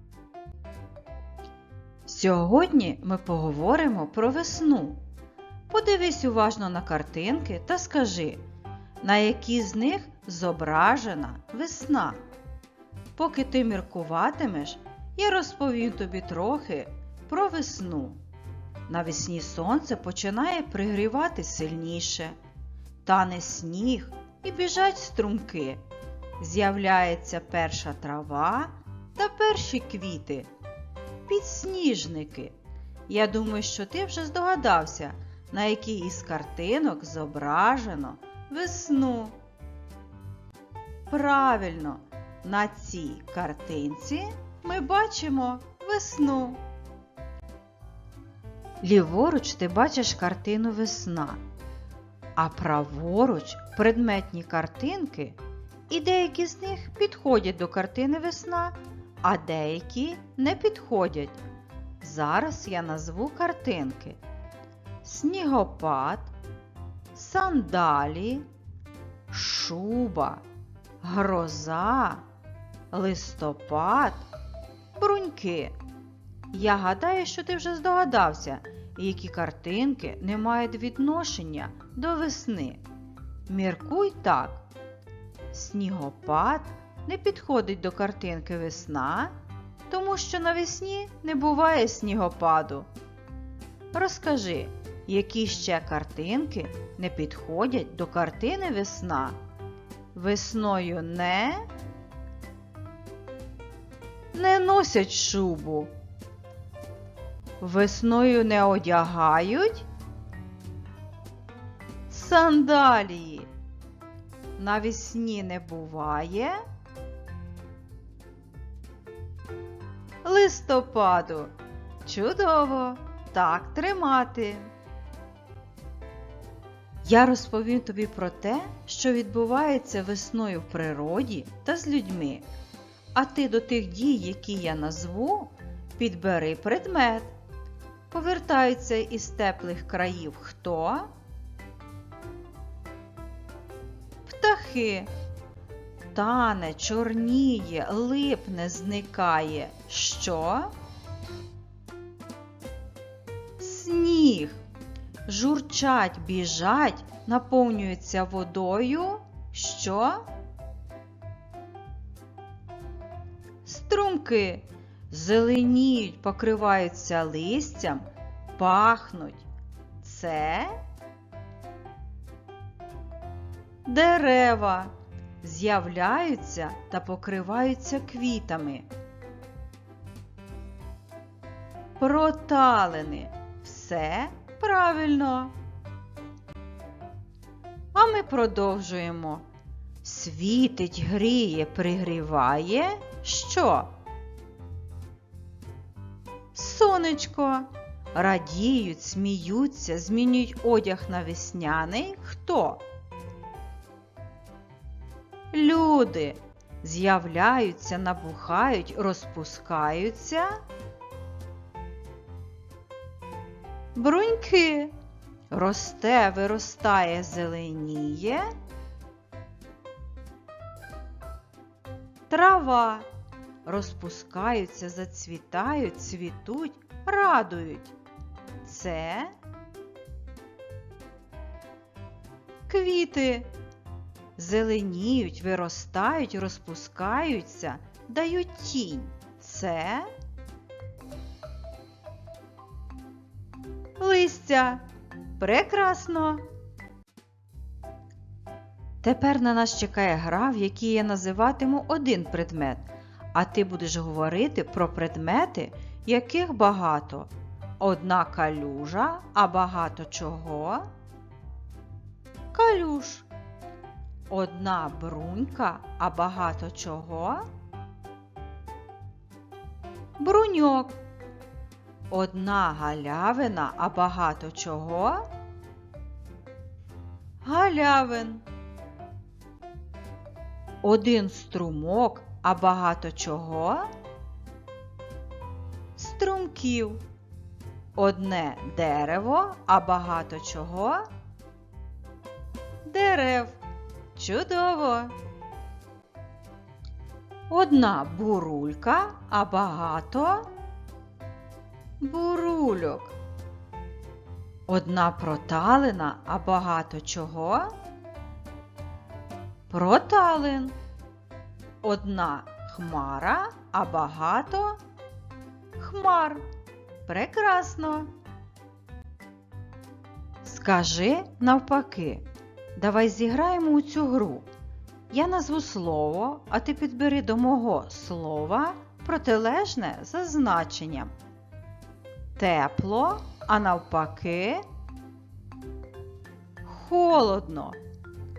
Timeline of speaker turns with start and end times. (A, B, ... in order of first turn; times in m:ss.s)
0:02.1-0:05.0 A
0:05.7-0:08.5 A
0:09.0-0:12.2 A
0:13.2-0:18.2 A
0:18.9-0:22.4 A
0:23.0-0:25.8 A
0:26.4-0:30.5 A
0:31.3-0:32.6 A
0:33.1-0:39.4 A
0:41.1-0:46.6 A
0:48.8-0:51.4 A
0:52.4-1:01.4 A
1:02.0-1:04.2 A
1:05.0-1:06.3 A
1:07.1-1:08.5 A
1:09.3-1:10.4 A
1:11.0-1:12.2 A
1:12.9-1:14.3 A
1:15.0-1:15.8 A
1:16.5-1:22.8 A
1:23.5-1:24.6 A
1:25.5-1:29.3 A
1:29.9-1:32.9 A
1:33.9-1:39.4 A
1:40.1-1:41.7 A
1:44.3-1:45.9 A
1:47.6-1:49.9 A
1:52.1-1:53.5 A
1:54.6-1:56.6 A
2:00.2-2:04.7 A
2:07.0-2:12.5 A
2:13.1-2:17.4 A
2:18.1-2:21.1 A
2:24.2-2:25.1 A
2:26.1-2:30.7 A
2:33.6-2:34.6 A
2:35.3-2:40.3 A
2:43.6-2:49.4 A
2:50.0-2:50.8 A
2:53.8-2:58.9 A
3:02.0-3:05.6 A
3:07.9-3:09.5 A
3:10.0-3:13.9 A
3:16.5-3:22.8 A
3:25.5-3:30.6 A
3:34.0-3:34.9 A
3:35.5-3:38.5 A
3:42.3-3:43.1 A
3:43.6-3:48.0 A
3:48.6-3:49.3 A
3:52.7-3:53.5 A
3:54.4-4:00.1 A
4:04.0-4:04.9 A
4:05.4-4:06.4 A
4:09.0-4:20.9 A
4:22.5-4:23.3 A
4:24.3-4:27.5 A
4:30.2-4:31.0 A
4:32.1-4:35.3 A
4:37.4-4:38.4 A
4:40.8-4:43.9 A
4:46.0-4:47.0 A
4:48.0-4:51.1 A
4:52.8-4:53.6 A
4:54.1-4:55.2 A
4:57.5-5:00.5 A
5:02.0-5:03.2 A
5:04.7-5:07.7 A
5:09.7-5:10.8 A
5:11.8-5:14.8 A
5:15.8-5:16.4 A
5:17.1-5:18.1 A
5:20.4-5:24.5 A
5:25.1-5:31.1 A
5:32.4-5:34.6 A
5:36.6-5:37.8 A